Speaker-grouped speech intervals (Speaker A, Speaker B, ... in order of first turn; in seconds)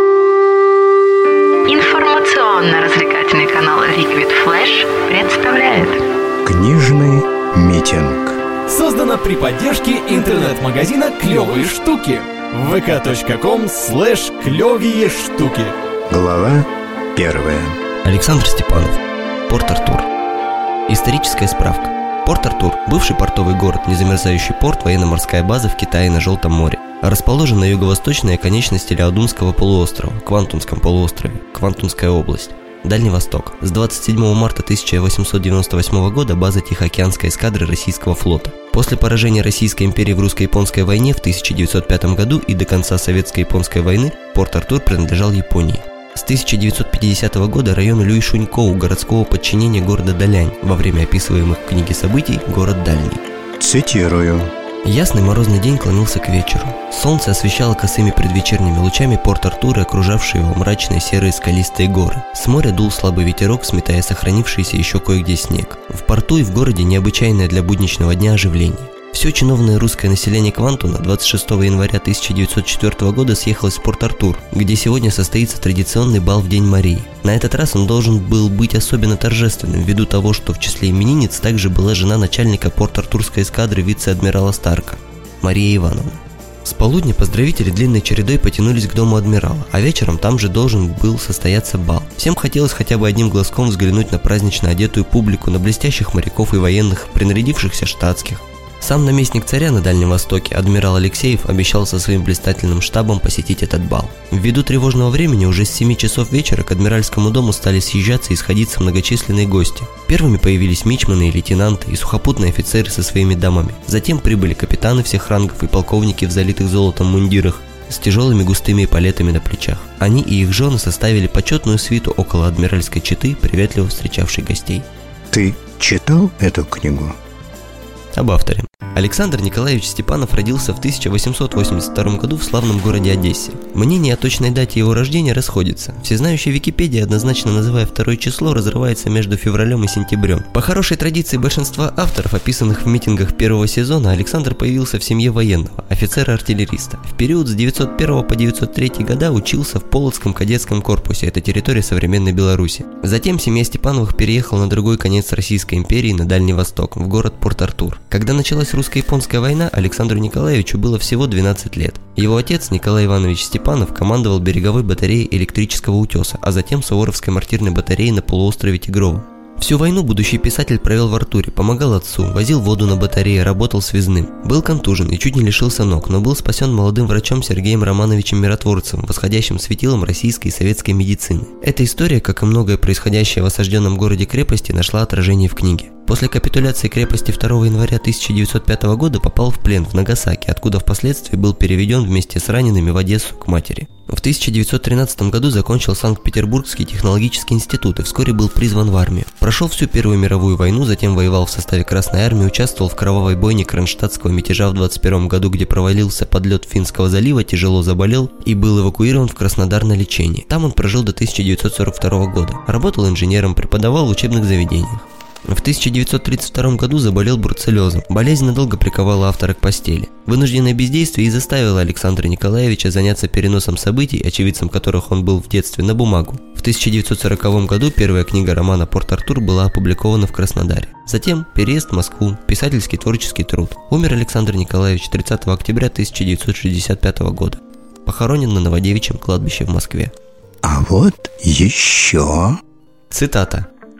Speaker A: 1.7-6.0
Speaker B: 6.4-8.4, 16.1-17.8, 53.6-54.5, 125.3-127.2, 240.6-242.6
Speaker C: 8.7-15.7
Speaker D: 18.0-20.1, 20.9-53.2, 54.9-124.9, 128.1-240.1, 243.1-243.7